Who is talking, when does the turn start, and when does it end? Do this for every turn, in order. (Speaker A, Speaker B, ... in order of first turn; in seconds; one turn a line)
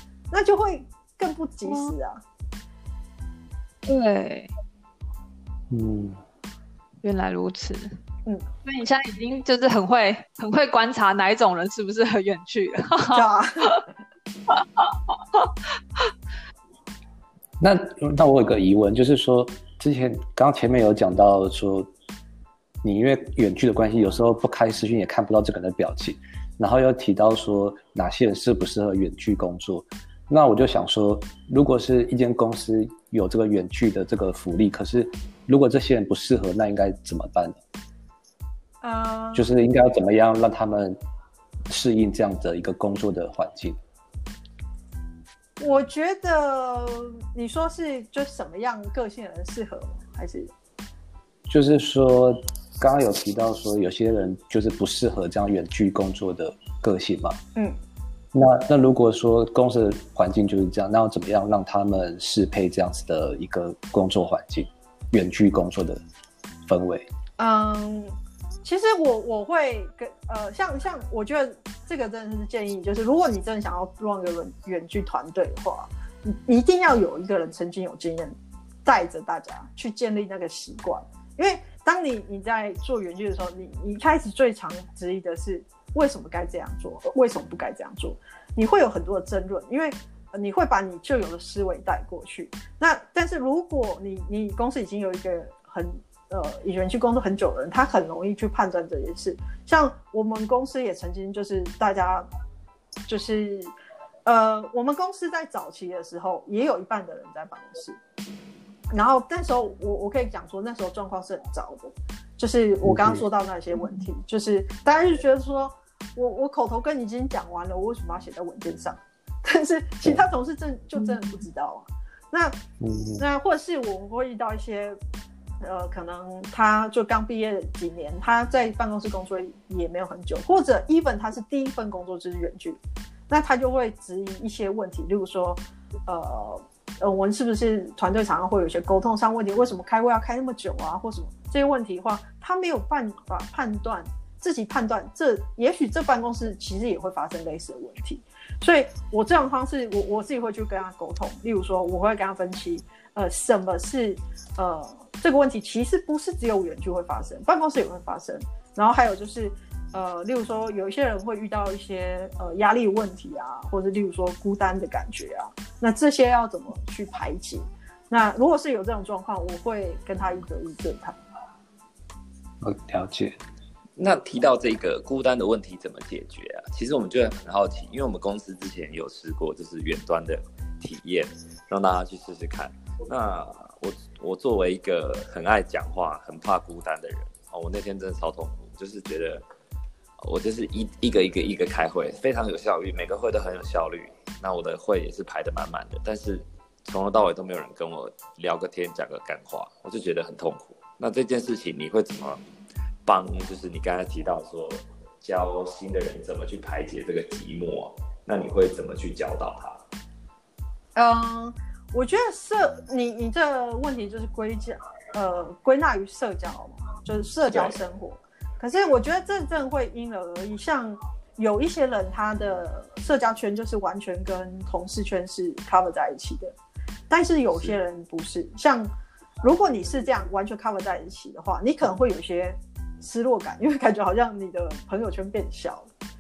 Speaker A: 0.3-2.2
Speaker B: 1.7-1.9
Speaker B: 3.9-4.5
Speaker C: 5.7-6.2
Speaker B: 7.0-8.0
Speaker B: 8.6-13.8
Speaker A: 13.1-13.8
Speaker B: 14.5-15.5
Speaker C: 17.6-21.9
Speaker C: 22.8-37.6
Speaker A: 38.8-39.5
Speaker C: 39.4-41.0
Speaker C: 41.7-43.8
Speaker A: 45.6-50.5
Speaker C: 51.5-57.4
Speaker C: 58.3-66.0
Speaker C: 66.7-67.1
Speaker A: 67.4-102.3
Speaker A: 103.1-103.7
Speaker A: 104.2-108.0
Speaker A: 108.9-122.6
Speaker C: 112.8-113.2
Speaker C: 122.8-123.2
Speaker A: 123.2-125.0
Speaker A: 125.6-171.2
Speaker C: 172.6-173.4
Speaker D: 174.0-189.4
Speaker D: 190.2-202.4
Speaker D: 203.1-209.8
Speaker A: 211.0-226.6
Speaker A: 227.1-228.9
Speaker A: 229.4-235.9